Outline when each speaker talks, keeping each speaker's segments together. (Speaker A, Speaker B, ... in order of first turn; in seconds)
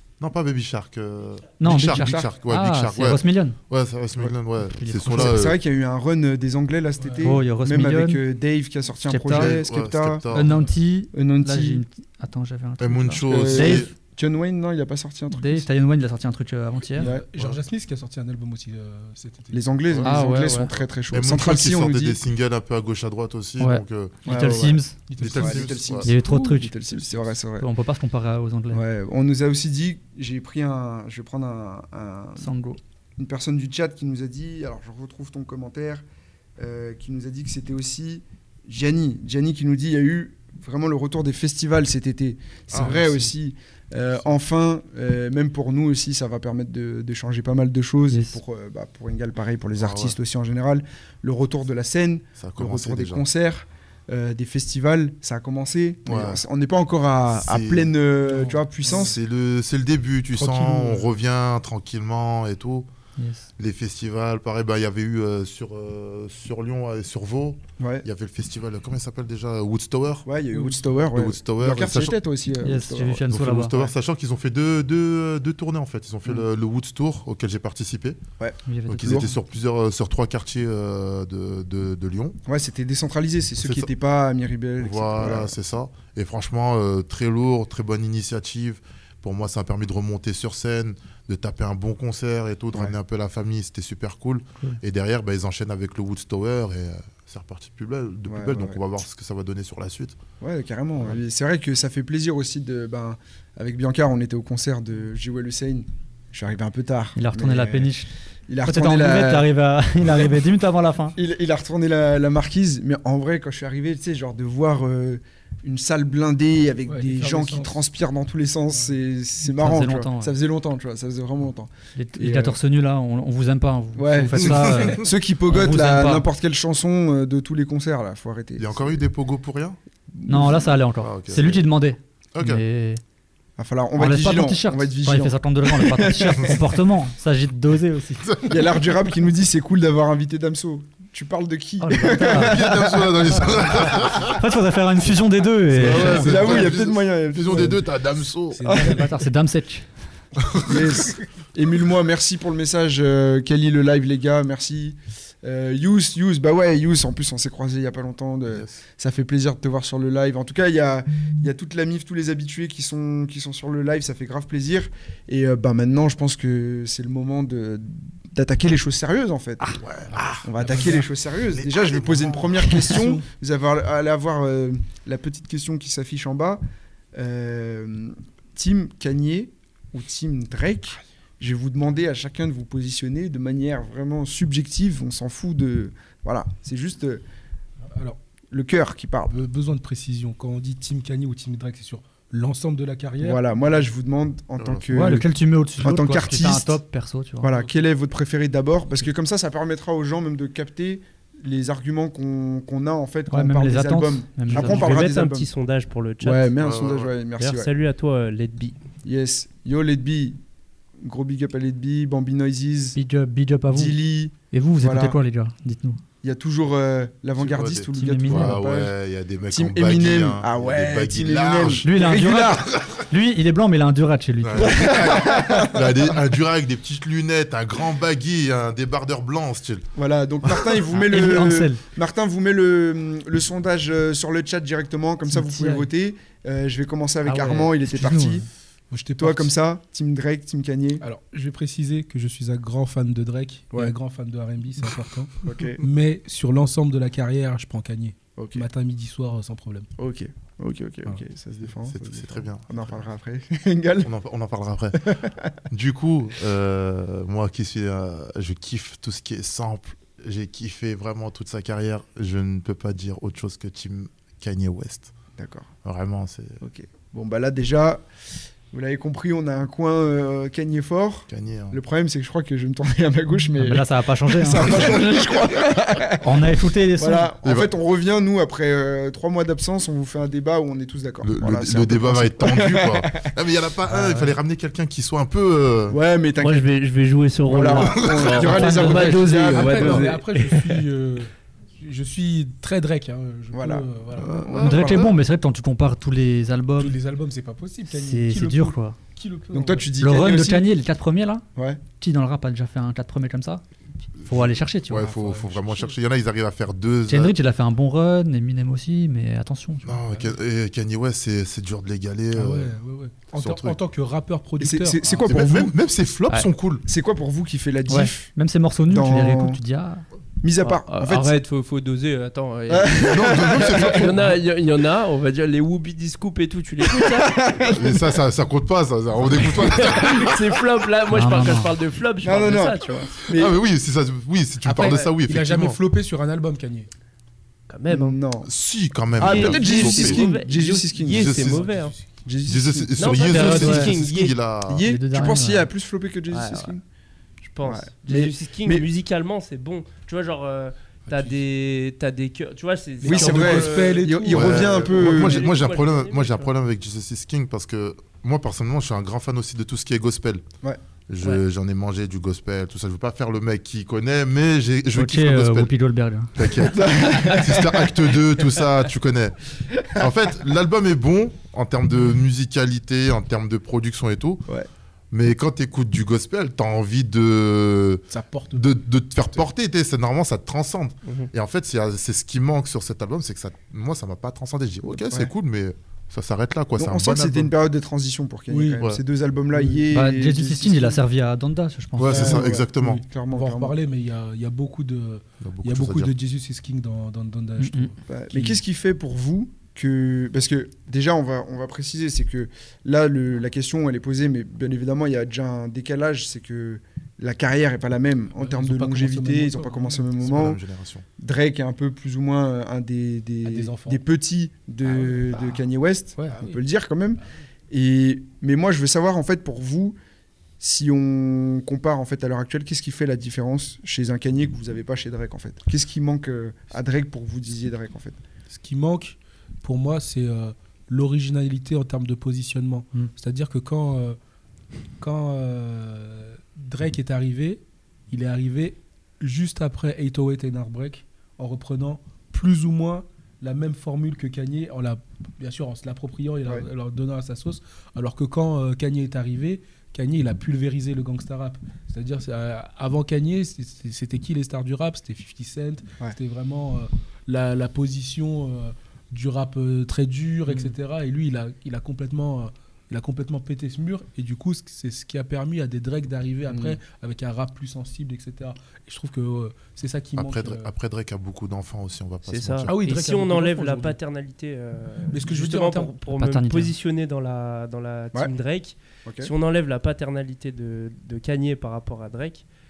Speaker A: 0.2-5.6, 9.3-10.7, 12.8-13.9, 17.4-17.6, 19.9-24.2, 25.2-26.1, 42.7-43.3, 49.8-50.2, 52.4-53.2, 56.1-56.4, 57.3-57.9, 58.9-62.9, 63.6-70.3, 71.1-72.2, 73.3-78.2, 78.9-82.4, 83.6-83.9, 84.8-100.2, 124.4-124.9, 128.6-129.8, 131.0-131.7, 132.3-132.6, 138.2-138.6, 142.2-144.4, 145.7-148.7, 150.4-150.9, 158.5-158.8, 169.7-172.9, 194.6-195.0, 206.6-207.1, 217.4-221.9, 224.4-229.8, 251.9-253.0, 254.0-255.2, 255.7-265.1, 265.8-266.6, 271.3-271.8, 274.7-275.0, 277.4-277.7, 281.2-286.0, 287.7-288.6, 294.2-295.0, 304.2-307.4, 309.9-312.8, 313.3-313.8, 315.2-316.8, 323.1-324.3, 327.7-330.4, 333.3-335.8, 338.5-340.3, 341.1-341.7, 342.5-344.9, 354.3-360.4, 361.1-365.7, 366.4-374.4, 375.1-387.5, 392.0-393.0, 395.4-396.1, 410.2-411.1, 470.2-472.8
Speaker B: 1.6-3.6, 4.6-5.5, 7.2-8.2, 9.1-9.6, 10.3-13.9, 15.3-17.1, 20.0-20.7, 23.6-25.0, 26.0-27.0, 27.6-28.8, 32.4-32.8, 48.1-48.4, 63.2-63.5, 72.6-73.8, 78.7-79.3, 107.2-108.1, 108.6-111.2, 119.5-120.4, 122.0-126.3, 130.3-133.0, 134.0-138.3, 141.8-142.6, 143.9-146.5, 148.7-149.9, 194.9-197.5, 203.3-205.0, 212.9-214.0, 214.5-216.0, 217.9-218.6, 221.8-224.9, 230.9-231.8, 235.3-235.9, 237.2-238.5, 273.6-275.0, 276.1-277.3, 283.9-284.4, 288.5-289.3, 294.6-297.0, 297.9-299.0, 300.0-301.4, 302.0-303.6, 304.3-305.1, 307.1-310.0, 317.9-320.1, 331.1-331.7, 343.3-343.9, 344.9-345.7, 364.9-366.4, 389.9-392.4, 397.6-397.9, 476.2-476.7
Speaker C: 1.7-2.3, 5.1-10.3, 11.1-11.8, 13.2-15.7, 17.0-17.3, 19.5-22.2, 24.2-27.7, 28.7-32.5, 33.2-36.0, 36.6-59.2, 67.8-68.1, 70.3-73.9, 78.4-79.3, 82.5-85.5, 98.3-98.8, 100.4-108.0, 108.5-109.5, 111.2-122.6, 124.0-129.0, 130.1-130.8, 133.6-136.7, 138.4-143.6, 145.8-147.8, 148.7-149.0, 150.6-169.8, 170.4-176.6, 177.2-187.2, 188.5-189.3, 193.2-195.3, 195.8-196.8, 197.4-205.5, 206.2-207.7, 209.0-210.4, 211.0-213.0, 213.7-215.2, 216.2-218.9, 219.5-222.8, 224.6-226.2, 230.0-238.4, 239.2-241.1, 245.4-245.8, 248.4-248.7, 250.0-254.1, 255.0-255.5, 265.4-265.7, 266.6-268.1, 268.7-283.3, 285.9-286.7, 287.5-290.2, 293.5-295.2, 299.5-300.7, 301.6-301.8, 314.6-315.8, 316.9-318.3, 318.9-319.6, 320.4-321.4, 322.7-324.1, 326.8-328.2, 332.2-333.6, 337.9-338.5, 339.2-341.5, 342.2-343.3, 344.7-346.8, 347.6-348.9, 353.0-355.4, 366.6-368.4, 369.7-370.1, 386.8-391.1, 392.1-393.8, 398.1-410.6, 411.2-420.0, 420.6-428.2, 466.5-466.8, 479.1-479.3
Speaker D: 7.0-7.4, 16.9-19.7, 25.1-25.7, 58.3-58.9, 60.3-61.1, 70.5-70.9, 116.9-117.8, 146.0-146.7, 147.5-147.8, 148.5-149.2, 170.6-171.1, 172.4-173.2, 187.9-188.2, 189.3-193.4, 197.5-197.8, 238.9-239.5, 241.0-249.9, 289.3-294.4, 296.8-299.9, 305.1-305.9, 312.3-315.7, 334.6-336.9, 341.6-342.1, 351.1-351.4, 353.0-354.7, 378.1-378.7, 388.5-388.9, 389.5-389.9, 392.1-398.6, 408.4-410.1, 413.4-414.0, 415.0-415.6, 416.2-416.6, 428.5-434.2, 435.0-470.7, 472.7-474.0, 475.1-475.9
Speaker E: 204.5-206.5, 207.4-208.8, 286.4-290.9, 320.6-327.7, 329.3-333.2, 337.7-338.2, 339.2-341.9, 343.0-344.4, 346.3-346.8, 347.4-356.5, 381.1-381.3, 472.3-482.5